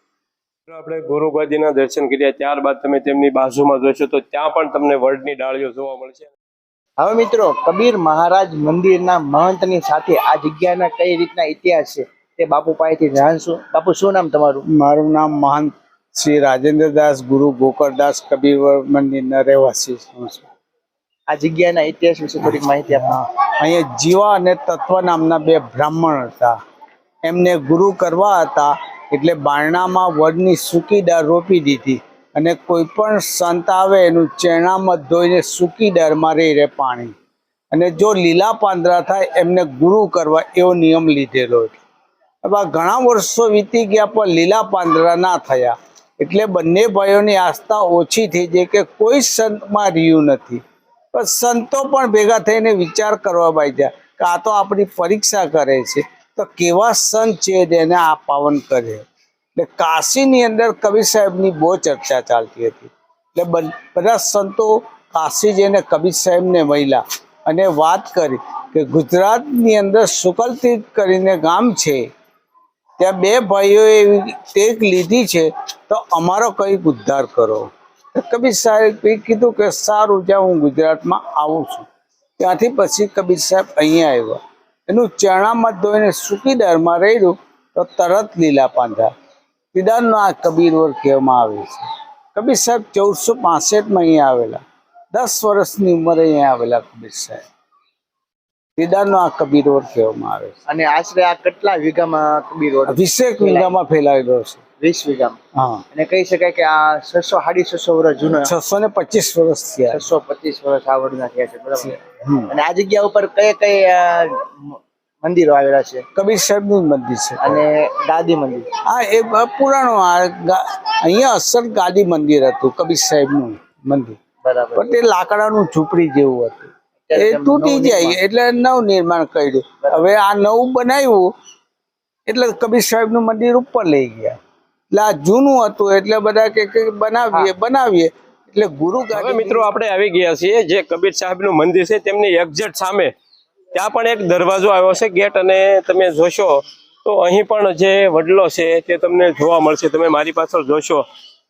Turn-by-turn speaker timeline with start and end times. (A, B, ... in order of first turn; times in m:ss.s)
0:00.7-0:06.3 A
0:07.0-0:14.6 B
0:14.7-0:20.5 C
0:21.3-0:23.1 B
0:22.9-0:26.5 C
0:27.2-0:37.1 C
0:37.7-0:41.8 C
0:42.4-0:50.6 C
0:51.1-0:59.0 C
0:59.6-1:12.1 C
1:13.0-1:21.9 C
1:22.4-1:29.1 C
1:29.7-1:37.4 C
1:38.8-1:40.6 C
1:40.7-1:43.7 B
1:42.8-1:44.6 C
1:44.8-1:45.4 B
1:45.6-1:45.8 C
1:45.9-1:48.5 B
1:48.4-1:50.0 C
1:49.9-1:56.0 B
1:52.2-1:52.5 C
1:56.1-1:57.6 C
1:57.4-1:58.7 B
1:58.8-2:04.2 C
2:04.4-2:04.8 B
2:04.8-2:11.3 C
2:07.1-2:08.2 B
2:12.3-2:14.4 C
2:14.9-2:19.7 C
2:19.1-2:23.1 A
2:23.7-2:31.0 A